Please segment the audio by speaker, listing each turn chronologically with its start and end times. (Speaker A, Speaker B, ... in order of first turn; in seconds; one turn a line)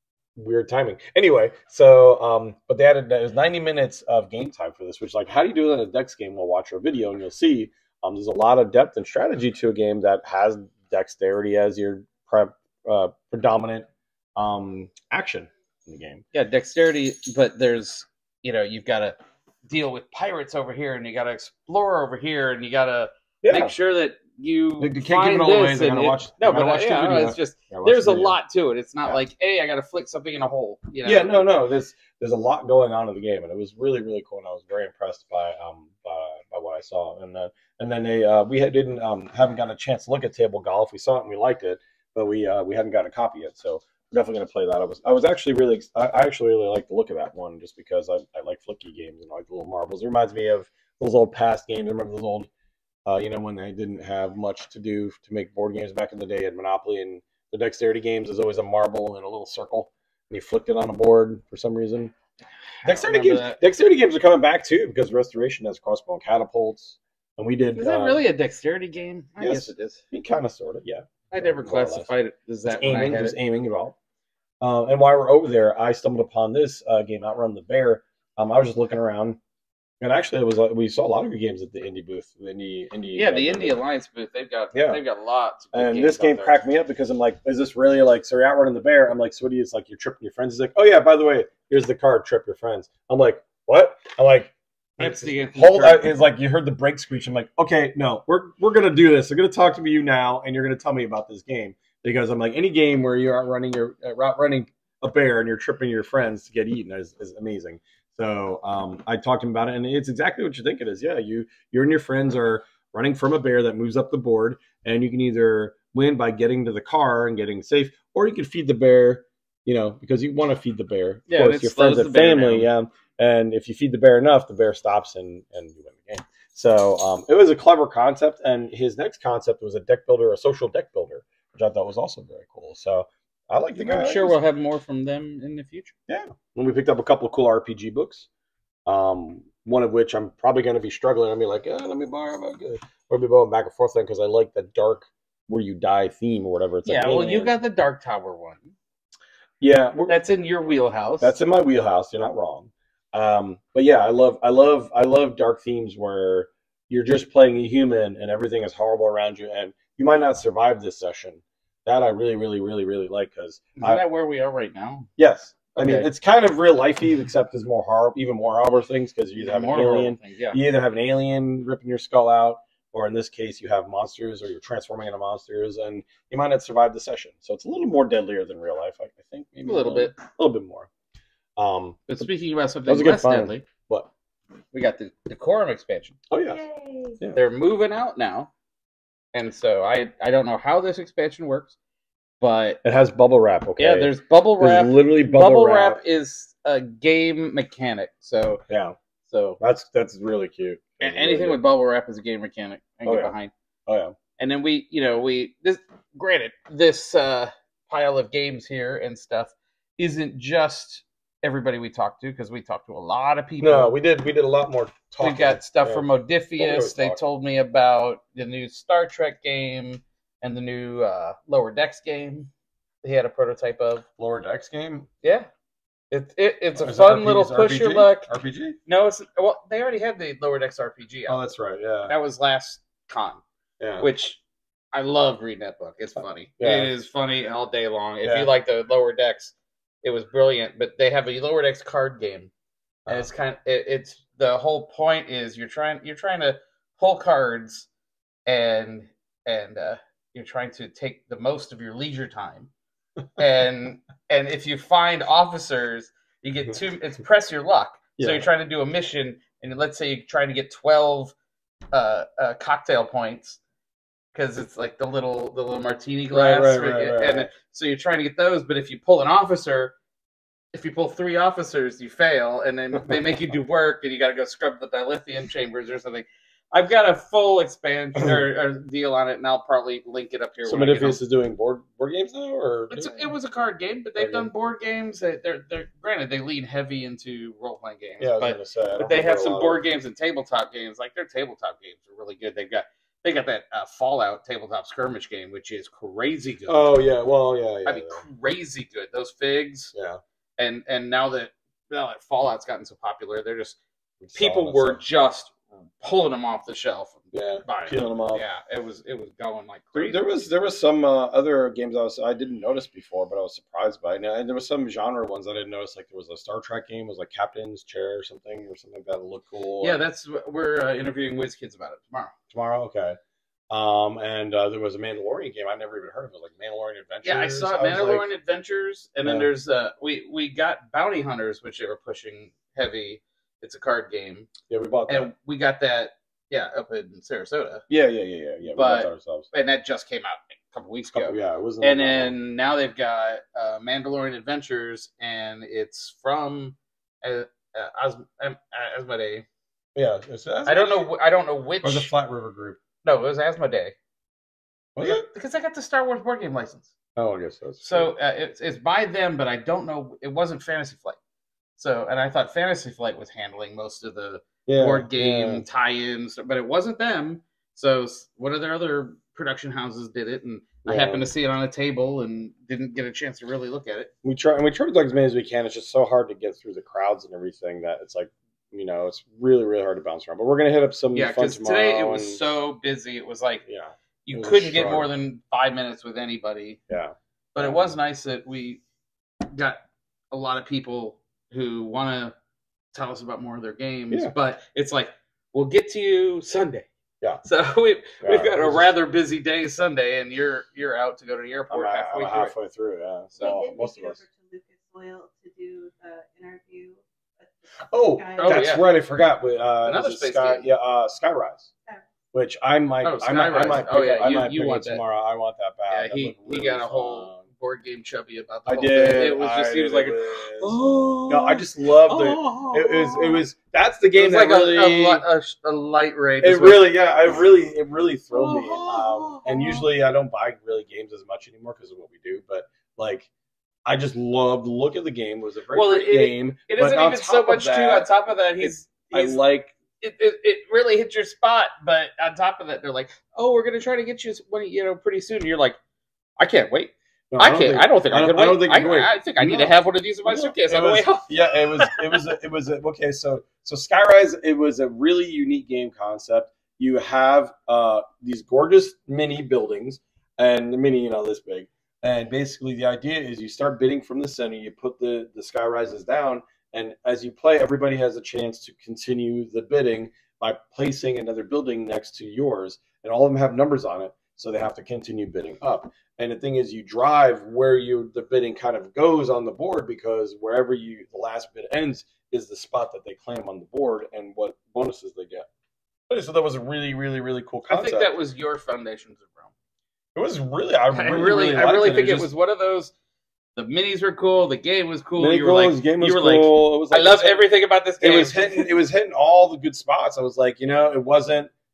Speaker A: 0.4-16.2
Speaker B: 16.3-31.5
Speaker A: 23.4-23.7
Speaker A: 24.8-28.4
Speaker A: 31.0-52.5
Speaker A: 53.1-62.1
Speaker B: 62.8-63.6
Speaker A: 62.8-68.2
Speaker B: 67.8-70.0
Speaker A: 69.4-72.1
Speaker B: 71.3-73.4
Speaker A: 72.7-74.0
Speaker A: 74.6-79.4
Speaker A: 80.0-83.8
Speaker B: 83.1-86.6
Speaker A: 84.7-85.0
Speaker A: 85.7-134.4
Speaker B: 95.0-96.1
Speaker B: 121.3-122.7
Speaker B: 133.8-135.9
Speaker A: 136.1-138.3
Speaker A: 138.9-147.6
Speaker B: 146.8-148.8
Speaker A: 149.6-150.2
Speaker B: 150.1-151.4
Speaker A: 151.2-164.0
Speaker B: 163.8-165.1
Speaker A: 165.2-180.9
Speaker B: 165.8-166.1
Speaker B: 169.4-170.6
Speaker B: 179.7-180.2
Speaker A: 181.6-182.2
Speaker B: 182.1-183.7
Speaker A: 182.9-184.1
Speaker B: 184.7-186.2
Speaker A: 186.3-186.7
Speaker C: 186.5-187.2
Speaker B: 187.3-188.5
Speaker B: 189.3-191.8
Speaker B: 192.4-192.8
Speaker A: 192.8-196.0
Speaker B: 193.8-198.6
Speaker A: 198.7-199.0
Speaker B: 199.3-199.6
Speaker A: 199.6-201.6
Speaker B: 201.0-203.5
Speaker A: 203.1-203.3
Speaker A: 203.9-204.2
Speaker B: 204.4-213.9
Speaker A: 213.6-217.2
Speaker B: 215.2-222.5
Speaker B: 223.0-224.1
Speaker A: 224.2-225.1
Speaker B: 225.2-225.5
Speaker B: 226.1-228.3
Speaker A: 226.8-228.8
Speaker B: 228.9-231.4
Speaker A: 231.3-232.1
Speaker B: 232.1-233.4
Speaker A: 233.8-234.1
Speaker B: 234.0-234.4
Speaker B: 234.9-242.5
Speaker A: 236.6-236.9
Speaker A: 238.2-238.5
Speaker B: 243.1-247.9
Speaker B: 248.5-252.7
Speaker B: 253.4-261.4
Speaker A: 258.2-258.5
Speaker B: 261.9-263.6
Speaker B: 264.3-269.9
Speaker A: 266.3-267.5
Speaker B: 270.7-281.2
Speaker A: 280.6-283.3
Speaker B: 282.9-296.9
Speaker A: 284.2-284.5
Speaker A: 288.2-289.9
Speaker A: 296.7-298.2
Speaker B: 297.9-299.9
Speaker A: 299.9-300.2
Speaker B: 300.6-303.8
Speaker A: 304.2-305.0
Speaker B: 304.3-310.3
Speaker A: 307.3-308.4
Speaker A: 309.9-320.0
Speaker B: 319.8-322.3
Speaker A: 322.5-323.2
Speaker A: 323.7-328.2
Speaker B: 327.2-334.5
Speaker A: 329.2-329.5
Speaker A: 334.7-335.3
Speaker B: 335.1-337.8
Speaker A: 337.9-339.5
Speaker B: 338.8-349.5
Speaker A: 341.1-342.4
Speaker A: 349.9-351.1
Speaker B: 350.7-352.1
Speaker A: 351.8-352.8
Speaker B: 353.0-353.9
Speaker A: 355.0-355.2
Speaker B: 355.0-356.9
Speaker A: 357.2-358.1
Speaker B: 357.8-361.2
Speaker B: 361.8-374.1
Speaker A: 364.7-365.7
Speaker A: 370.9-371.3
Speaker A: 374.2-382.4
Speaker B: 381.1-383.6
Speaker A: 383.7-385.1
Speaker B: 384.3-386.8
Speaker A: 386.9-388.0
Speaker B: 387.6-388.8
Speaker B: 389.5-389.8
Speaker B: 390.3-392.3
Speaker B: 392.9-396.9
Speaker B: 397.4-402.5
Speaker A: 398.2-398.9
Speaker A: 401.7-404.2
Speaker C: 403.4-408.7
Speaker A: 407.9-411.7
Speaker B: 408.4-408.9
Speaker B: 409.8-410.7
Speaker A: 412.3-417.4
Speaker B: 413.0-415.0
Speaker B: 415.9-423.4
Speaker A: 418.7-425.2
Speaker B: 424.1-426.9
Speaker A: 426.4-433.3
Speaker B: 428.3-429.9
Speaker A: 433.9-438.1
Speaker B: 435.7-439.4
Speaker A: 438.6-439.8
Speaker B: 440.0-445.8
Speaker B: 446.4-452.0
Speaker A: 447.3-485.5
Speaker A: 486.1-488.1
Speaker B: 487.7-489.5
Speaker A: 490.1-492.3
Speaker B: 490.9-492.9
Speaker B: 493.6-498.7
Speaker A: 495.2-497.5
Speaker A: 498.0-501.5